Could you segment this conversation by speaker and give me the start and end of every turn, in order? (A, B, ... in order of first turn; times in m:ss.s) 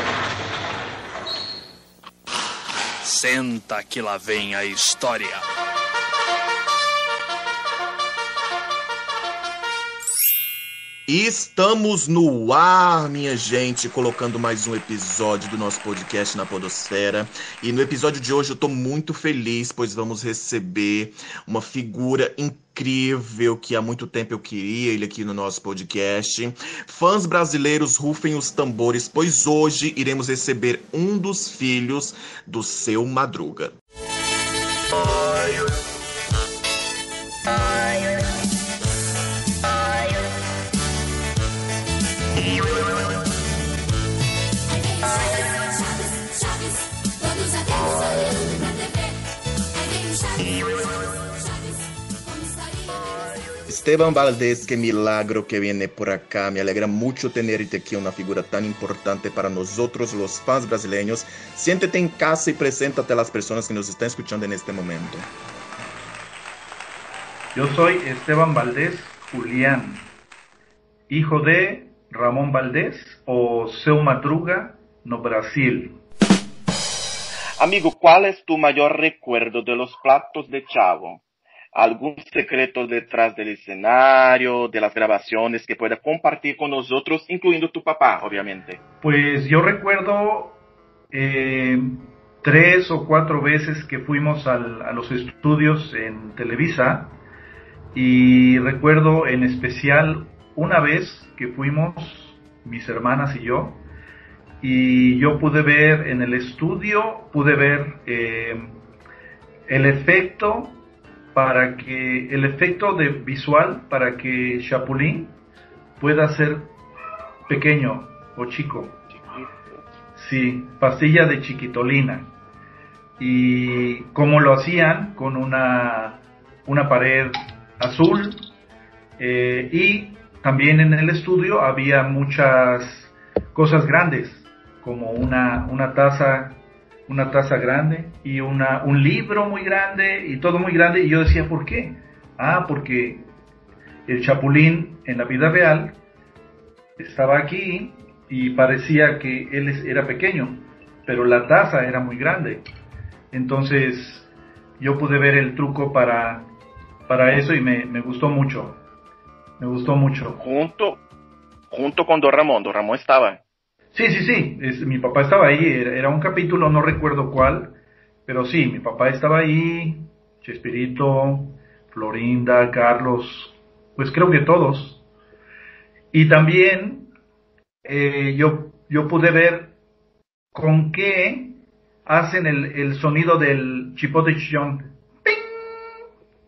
0:03.0-0:05.4 A
0:11.1-0:33.8 B
0:53.7-1:05.3 B
1:07.5-1:10.1 C
1:11.1-1:16.0 C
1:17.6-1:21.2 D
1:21.7-1:28.8 D
1:29.0-1:30.6 C
1:31.1-1:37.2 C
1:37.9-1:43.8 C
1:44.6-1:48.8 C
1:49.7-1:50.8 C
1:51.3-1:55.4 C
1:56.0-1:56.7 C
1:57.5-1:59.0 C
1:59.1-1:59.8 D
2:00.2-2:02.3 C
2:03.2-2:08.4 C
2:09.2-2:23.3 C
2:24.1-2:26.0 C
2:27.0-2:32.7 C
2:33.3-2:34.3 C
2:34.8-2:36.5 C
2:37.1-2:38.8 C
2:39.6-2:40.4 C
2:40.4-2:41.0 D
2:41.7-2:43.4 D
2:43.9-2:55.0 C
2:56.1-2:57.1 C
2:57.8-2:59.7 C
3:00.5-3:05.8 C